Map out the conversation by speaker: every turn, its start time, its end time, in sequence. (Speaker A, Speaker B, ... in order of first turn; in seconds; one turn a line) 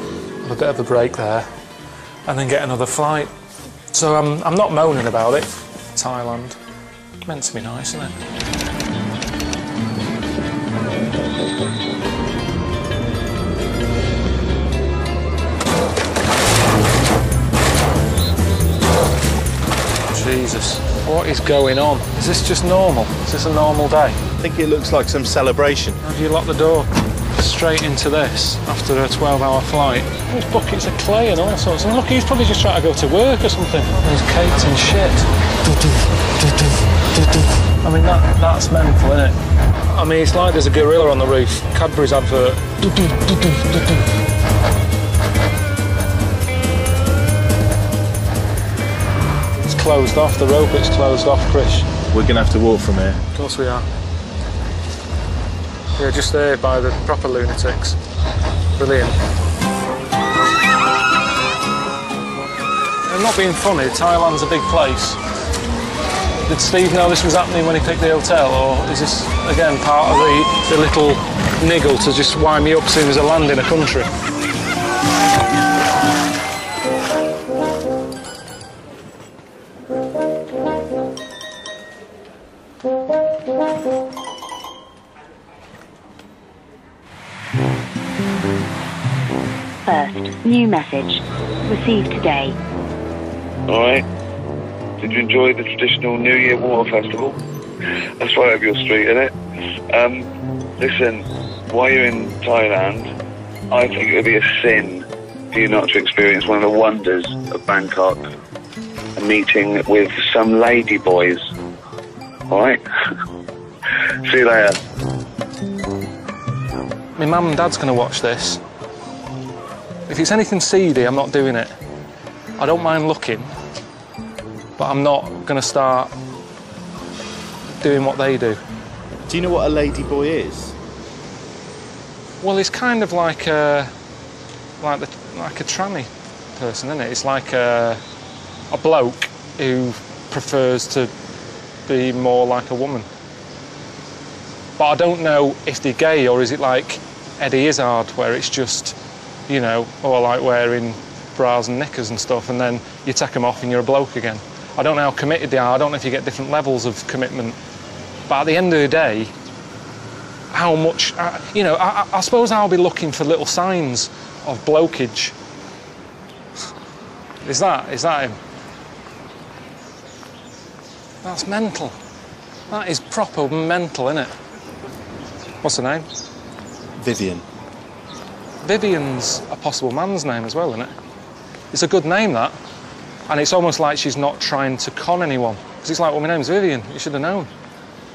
Speaker A: 0.4-1.5
Speaker A: 2.3-3.3
Speaker A: 3.9-6.6
Speaker A: 7.2-8.1
Speaker A: 20.1-24.2
Speaker B: 24.4-26.0
Speaker A: 26.0-39.4
Speaker A: 39.9-44.0
Speaker A: 49.6-51.9
Speaker B: 52.1-53.2
Speaker A: 53.4-53.9
Speaker A: 56.0-58.0
Speaker A: 58.8-59.2
Speaker A: 63.1-65.2
Speaker A: 66.5-74.1
Speaker C: 89.9-92.6
Speaker D: 93.7-94.1
Speaker D: 95.0-97.4
Speaker D: 98.2-99.4
Speaker D: 99.9-100.3
Speaker D: 100.8-103.1
Speaker D: 103.7-108.2
Speaker D: 109.2-111.4
Speaker D: 112.5-112.8
Speaker D: 114.3-114.8
Speaker A: 117.2-118.6
Speaker A: 120.1-121.7
Speaker A: 122.6-123.5
Speaker A: 124.8-126.1
Speaker A: 127.8-128.6
Speaker B: 129.3-130.7
Speaker A: 132.4-133.9
Speaker A: 134.8-138.0
Speaker A: 138.7-141.1
Speaker A: 141.9-143.1
Speaker A: 144.8-149.0
Speaker A: 149.5-157.6
Speaker A: 158.3-159.3
Speaker A: 160.5-165.3
Speaker A: 167.4-168.4
Speaker A: 171.2-171.9
Speaker A: 172.7-174.3
Speaker A: 175.6-176.1
Speaker B: 177.0-177.4
Speaker A: 178.6-180.9
Speaker A: 181.7-182.6
Speaker A: 183.3-187.5